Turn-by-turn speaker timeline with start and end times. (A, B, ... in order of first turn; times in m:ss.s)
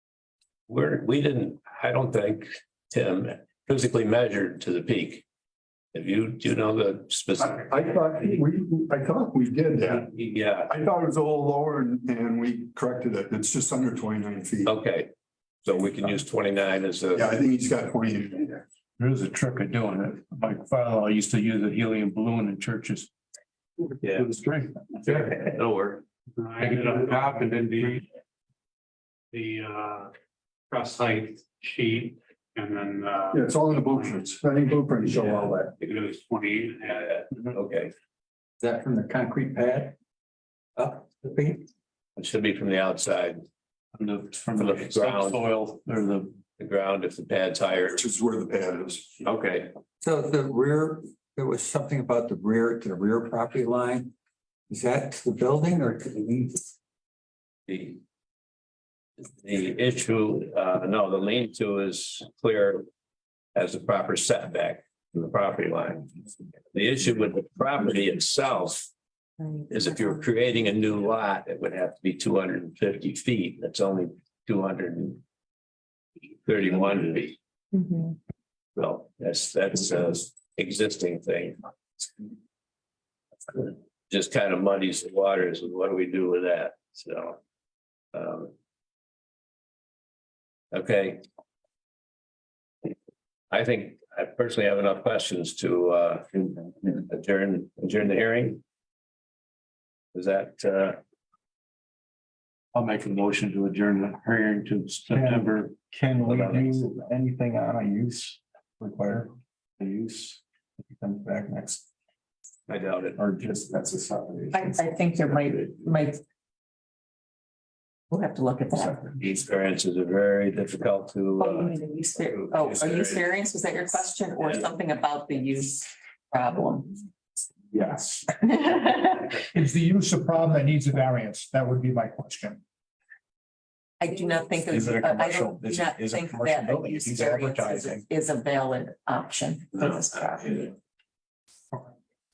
0:00.7-0:05.2 A
0:05.9-0:07.7 A
0:07.4-0:10.1 B
0:10.2-0:10.7 A
0:10.7-0:14.7 B
0:14.6-0:15.1 A
0:15.6-0:17.3 A
0:17.1-0:18.6 B
0:19.0-0:23.1 C
0:24.0-0:24.3 A
0:24.0-0:24.8 C
0:25.0-0:26.0 A
0:26.4-0:28.0 D
0:26.6-0:28.0 C
0:29.3-0:30.1 D
0:30.7-0:34.3 D
0:33.3-0:35.7 B
0:35.2-0:37.2 D
0:37.4-0:37.9 A
0:38.6-0:40.0 E
0:40.8-0:41.7 E
0:42.2-0:43.4 A
0:43.9-0:46.3 C
0:44.5-0:45.4 A
0:46.6-0:48.0 A
0:48.0-0:49.1 B
0:49.2-0:49.7 A
0:50.0-0:54.1 E
0:54.7-0:56.6 E
0:57.7-0:58.0 A
0:59.2-1:02.8 A
1:03.6-1:06.1 A
1:06.7-1:08.9 A
1:09.4-1:10.6 F
1:09.7-1:15.2 A
1:16.4-1:17.4 A
1:17.7-1:18.2 F
1:18.8-1:21.6 A
1:23.5-1:27.4 A
1:28.1-1:28.5 A
1:30.7-1:31.2 A
1:33.5-1:36.3 A
1:37.1-1:38.6 A
1:40.1-1:41.0 A
1:42.7-1:45.8 C
1:45.1-1:49.8 G
1:46.2-1:46.8 A
1:52.7-1:53.2 A
1:53.2-1:54.7 G
1:54.5-1:56.2 F
1:58.1-1:59.1 F
1:59.2-2:01.7 A
2:01.4-2:07.0 F
2:02.4-2:03.3 A
2:04.4-2:04.7 A
2:08.4-2:09.4 F
2:09.4-2:12.6 H
2:14.0-2:20.7 F
2:16.3-2:17.7 H